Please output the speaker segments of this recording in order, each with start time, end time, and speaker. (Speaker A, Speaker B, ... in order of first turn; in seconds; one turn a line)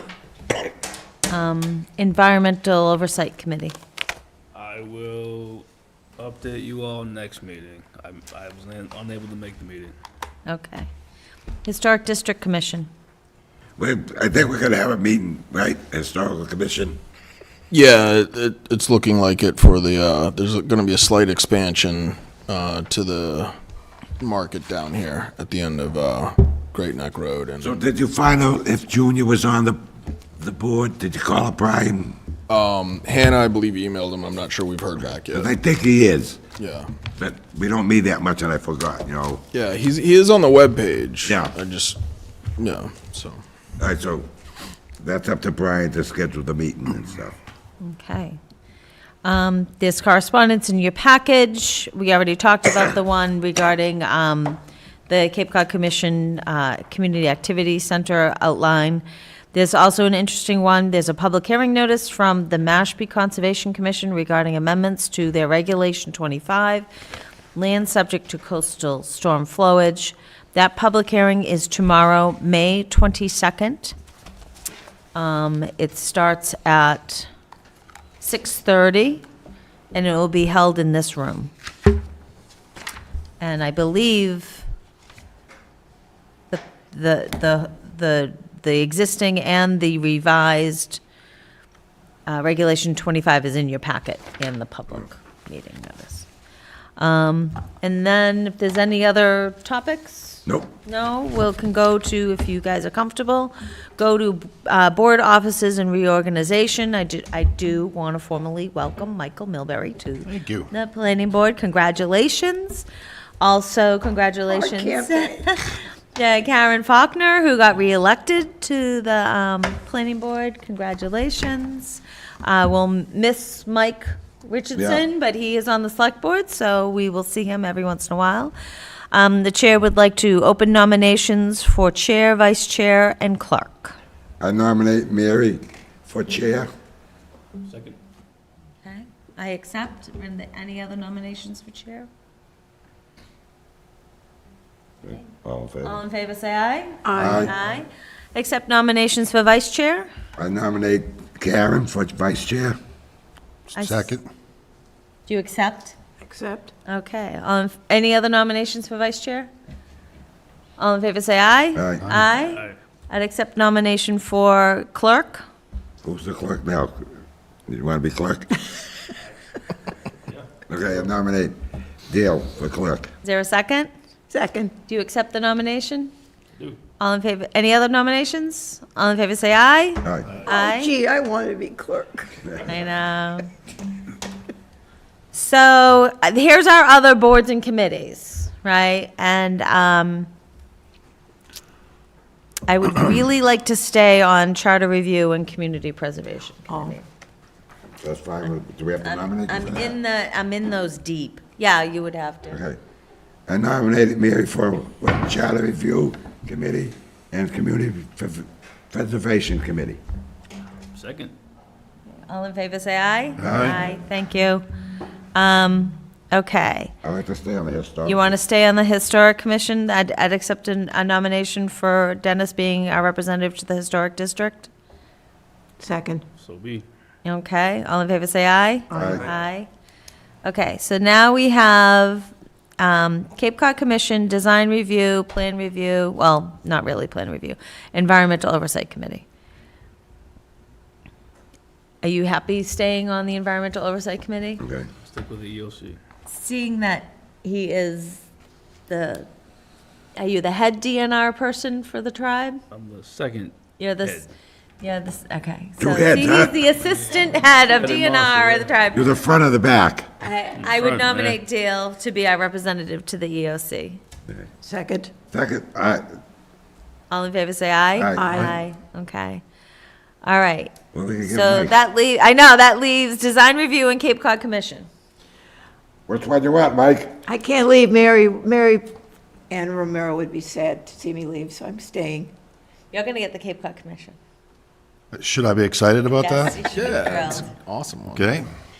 Speaker A: 1.3-3.8
Speaker B: 4.5-5.7
Speaker B: 6.2-9.9
Speaker A: 10.4-10.9
Speaker A: 11.6-12.9
Speaker C: 13.8-17.0
Speaker D: 17.7-23.5
Speaker D: 24.2-27.8
Speaker C: 27.6-29.8
Speaker C: 30.4-32.2
Speaker D: 32.5-35.5
Speaker C: 35.3-36.4
Speaker D: 36.6-36.9
Speaker C: 37.2-39.4
Speaker D: 39.5-42.0
Speaker C: 41.2-41.5
Speaker D: 42.6-43.4
Speaker C: 43.8-44.3
Speaker C: 45.0-47.4
Speaker A: 47.8-48.4
Speaker A: 49.2-66.9
Speaker A: 67.5-73.9
Speaker A: 75.1-77.3
Speaker A: 78.2-79.2
Speaker A: 79.9-81.5
Speaker A: 83.4-84.7
Speaker A: 86.5-91.0
Speaker A: 92.2-96.3
Speaker A: 97.0-112.9
Speaker C: 100.5-100.7
Speaker E: 110.2-110.7
Speaker A: 113.4-128.5
Speaker F: 114.5-115.4
Speaker C: 124.7-125.0
Speaker A: 129.1-133.9
Speaker C: 134.4-136.7
Speaker B: 137.6-138.0
Speaker A: 138.8-142.1
Speaker C: 145.0-146.0
Speaker A: 145.8-150.1
Speaker F: 147.0-147.5
Speaker C: 147.2-147.5
Speaker C: 150.4-152.8
Speaker E: 153.7-154.2
Speaker A: 153.7-154.1
Speaker A: 155.2-155.9
Speaker F: 156.2-156.7
Speaker A: 156.9-159.5
Speaker A: 160.8-165.4
Speaker C: 161.7-162.1
Speaker B: 162.3-162.8
Speaker C: 166.0-167.1
Speaker C: 167.7-168.6
Speaker C: 170.7-171.6
Speaker C: 172.1-173.1
Speaker A: 173.2-173.9
Speaker F: 174.3-174.7
Speaker A: 174.9-176.1
Speaker A: 177.0-180.9
Speaker C: 180.0-180.3
Speaker F: 180.4-182.5
Speaker A: 182.6-183.5
Speaker A: 185.3-190.3
Speaker A: 192.7-197.1
Speaker F: 196.7-196.9
Speaker C: 198.0-199.9
Speaker A: 199.0-202.6
Speaker C: 202.5-202.8
Speaker C: 203.5-210.0
Speaker B: 210.9-211.3
Speaker A: 212.2-214.6
Speaker C: 213.4-213.8
Speaker A: 215.3-216.9
Speaker C: 217.0-218.3
Speaker A: 218.0-224.7
Speaker F: 225.8-226.2
Speaker B: 226.4-226.8
Speaker A: 227.2-229.7
Speaker F: 228.9-229.2
Speaker C: 228.9-229.3
Speaker A: 230.4-239.2
Speaker A: 242.0-244.6
Speaker C: 244.6-244.9
Speaker B: 245.1-246.0
Speaker A: 246.3-248.2
Speaker A: 248.9-249.3
Speaker A: 250.2-252.6
Speaker B: 252.7-254.3
Speaker A: 253.8-254.3
Speaker A: 254.8-259.2
Speaker C: 255.8-256.6
Speaker B: 257.7-258.8
Speaker C: 258.9-260.1
Speaker A: 260.2-264.0
Speaker B: 260.6-261.4
Speaker F: 264.6-265.1
Speaker C: 265.3-266.1
Speaker A: 267.1-269.4
Speaker C: 268.0-268.4
Speaker F: 268.2-268.5
Speaker A: 270.2-270.7
Speaker C: 270.9-271.8
Speaker A: 271.2-274.9
Speaker C: 276.1-277.2
Speaker F: 277.3-278.9
Speaker F: 279.5-282.3
Speaker A: 282.9-284.2
Speaker E: 285.1-286.6
Speaker A: 286.2-287.5
Speaker D: 286.6-288.4
Speaker E: 288.1-288.5